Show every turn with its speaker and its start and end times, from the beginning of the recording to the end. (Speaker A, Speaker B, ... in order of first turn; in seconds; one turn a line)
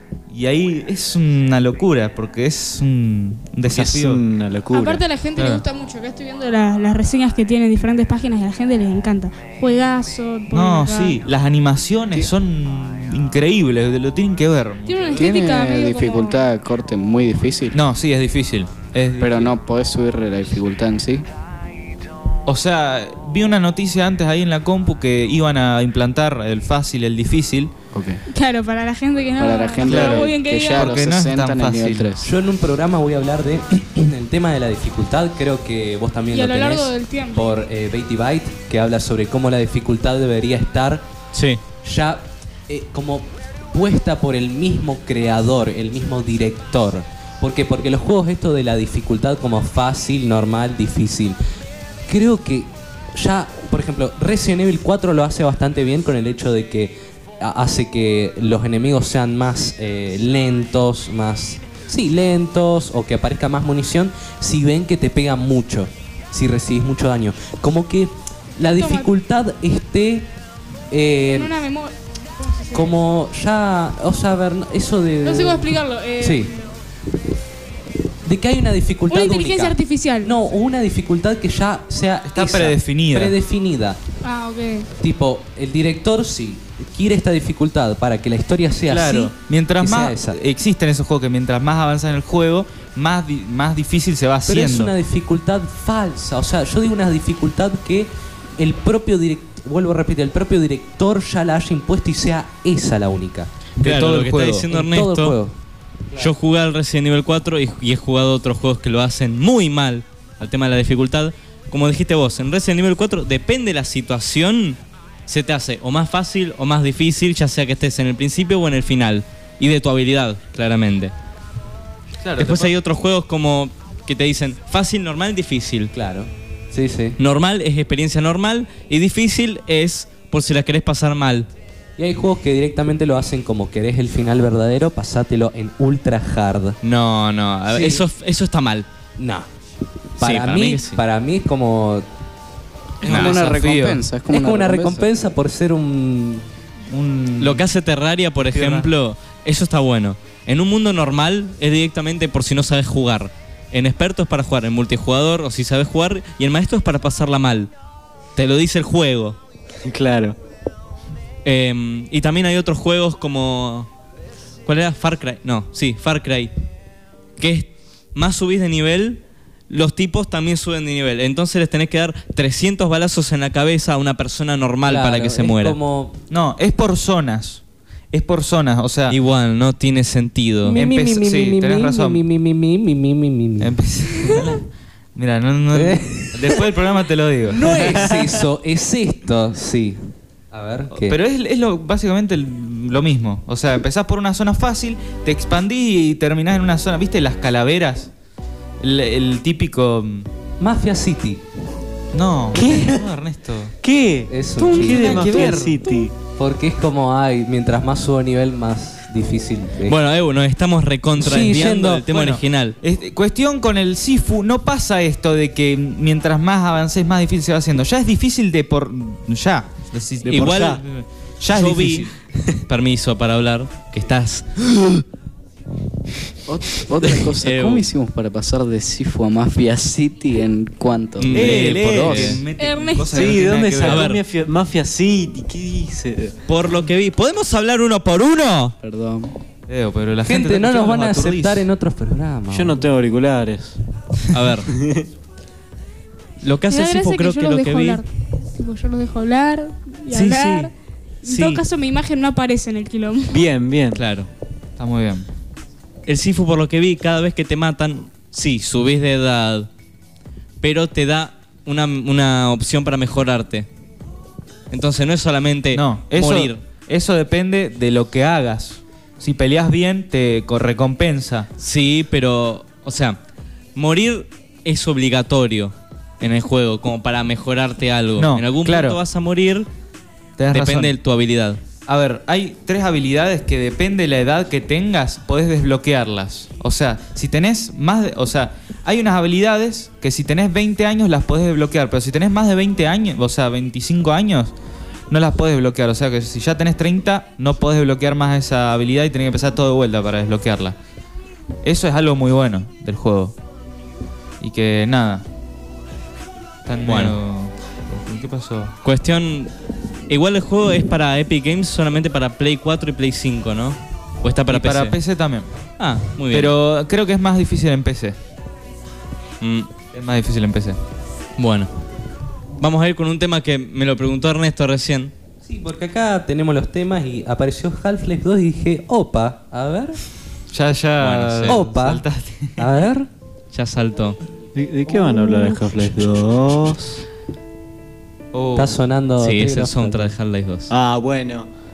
Speaker A: 0.3-4.2
Speaker B: 3.6-5.0
Speaker C: 4.7-11.2
Speaker A: 5.4-5.6
Speaker A: 10.5-15.3
Speaker C: 14.8-16.4
Speaker D: 15.2-17.8
Speaker A: 17.7-19.6
Speaker D: 19.2-21.2
Speaker A: 22.4-27.7
Speaker D: 27.9-28.2
Speaker C: 28.3-31.0
Speaker D: 29.4-32.3
Speaker A: 29.8-32.1
Speaker E: 32.2-41.0
Speaker C: 36.3-37.4
Speaker F: 41.3-41.6
Speaker E: 41.8-51.4
Speaker E: 52.1-70.3
Speaker C: 68.6-69.1
Speaker E: 70.9-71.5
Speaker C: 71.3-72.9
Speaker E: 72.7-76.5
Speaker C: 75.2-76.7
Speaker E: 78.2-84.0
Speaker C: 79.1-80.3
Speaker A: 82.3-83.3
Speaker C: 84.2-84.9
Speaker E: 85.0-90.4
Speaker A: 88.9-94.9
Speaker E: 94.5-103.5
Speaker A: 103.8-104.7
Speaker F: 103.8-105.3
Speaker E: 104.7-105.5
Speaker F: 106.2-121.1
Speaker A: 122.2-122.7
Speaker F: 122.4-125.9
Speaker E: 125.9-127.2
Speaker F: 127.2-131.5
Speaker E: 132.0-136.8
Speaker F: 136.8-138.8
Speaker E: 137.7-138.0
Speaker E: 139.2-139.5
Speaker E: 140.2-142.1
Speaker F: 140.2-141.0
Speaker A: 143.0-144.0
Speaker D: 143.0-145.1
Speaker F: 143.0-143.5
Speaker E: 144.3-146.5
Speaker A: 146.9-147.6
Speaker F: 147.4-157.7
Speaker A: 148.5-148.9
Speaker F: 158.3-159.4
Speaker B: 159.8-160.4
Speaker F: 161.4-163.9
Speaker F: 164.7-166.5
Speaker F: 167.4-175.8
Speaker E: 174.8-176.2
Speaker A: 176.3-179.2
Speaker F: 179.1-180.8
Speaker E: 180.6-183.7
Speaker A: 180.7-182.2
Speaker A: 183.6-188.1
Speaker E: 185.7-186.7
Speaker E: 187.5-191.2
Speaker A: 190.9-198.1
Speaker A: 198.8-200.3
Speaker E: 200.6-201.4
Speaker A: 202.1-203.7
Speaker B: 202.5-203.1
Speaker B: 203.8-206.2
Speaker E: 204.3-205.5
Speaker A: 204.7-205.8
Speaker E: 206.3-210.0
Speaker F: 209.9-212.8
Speaker E: 211.2-212.1
Speaker A: 212.1-222.1
Speaker F: 220.2-220.8
Speaker B: 220.3-220.8
Speaker F: 221.5-222.1
Speaker F: 222.7-225.0
Speaker D: 226.5-232.4
Speaker F: 227.0-227.9
Speaker F: 231.2-232.4
Speaker A: 231.3-234.0
Speaker C: 232.6-233.3
Speaker B: 233.1-236.4
Speaker F: 233.8-234.2
Speaker F: 236.5-238.8
Speaker D: 238.8-239.3
Speaker A: 239.7-241.7
Speaker E: 240.2-242.8
Speaker B: 242.5-243.8
Speaker F: 244.3-244.7
Speaker B: 244.7-245.1
Speaker F: 246.4-248.0
Speaker C: 246.7-250.7
Speaker E: 250.1-250.7
Speaker C: 251.2-253.4
Speaker F: 251.3-251.6
Speaker B: 253.3-254.0
Speaker F: 253.9-254.3
Speaker A: 254.8-255.2
Speaker F: 256.1-259.7
Speaker F: 260.6-263.7
Speaker F: 264.7-266.6
Speaker A: 265.7-271.5
Speaker F: 271.6-273.2
Speaker F: 273.8-279.7
Speaker A: 278.2-279.0
Speaker A: 280.4-280.9
Speaker F: 280.5-281.6
Speaker A: 281.9-294.5
Speaker A: 295.1-300.8
Speaker A: 301.6-303.4
Speaker A: 304.4-305.2
Speaker A: 306.6-308.7
Speaker F: 306.8-307.2
Speaker F: 308.8-309.5
Speaker F: 310.1-315.0
Speaker A: 314.5-315.5
Speaker F: 315.8-316.5
Speaker A: 316.3-318.1
Speaker F: 319.4-319.7
Speaker A: 319.9-320.8
Speaker F: 321.4-321.7
Speaker F: 322.6-325.1
Speaker E: 325.4-330.0
Speaker A: 330.5-332.7
Speaker F: 331.0-331.6
Speaker E: 331.4-332.0
Speaker E: 332.6-333.1
Speaker F: 333.5-334.2
Speaker B: 334.5-337.0
Speaker E: 335.0-335.5
Speaker A: 338.3-338.7
Speaker E: 338.6-340.1
Speaker F: 339.2-340.7
Speaker B: 340.7-341.5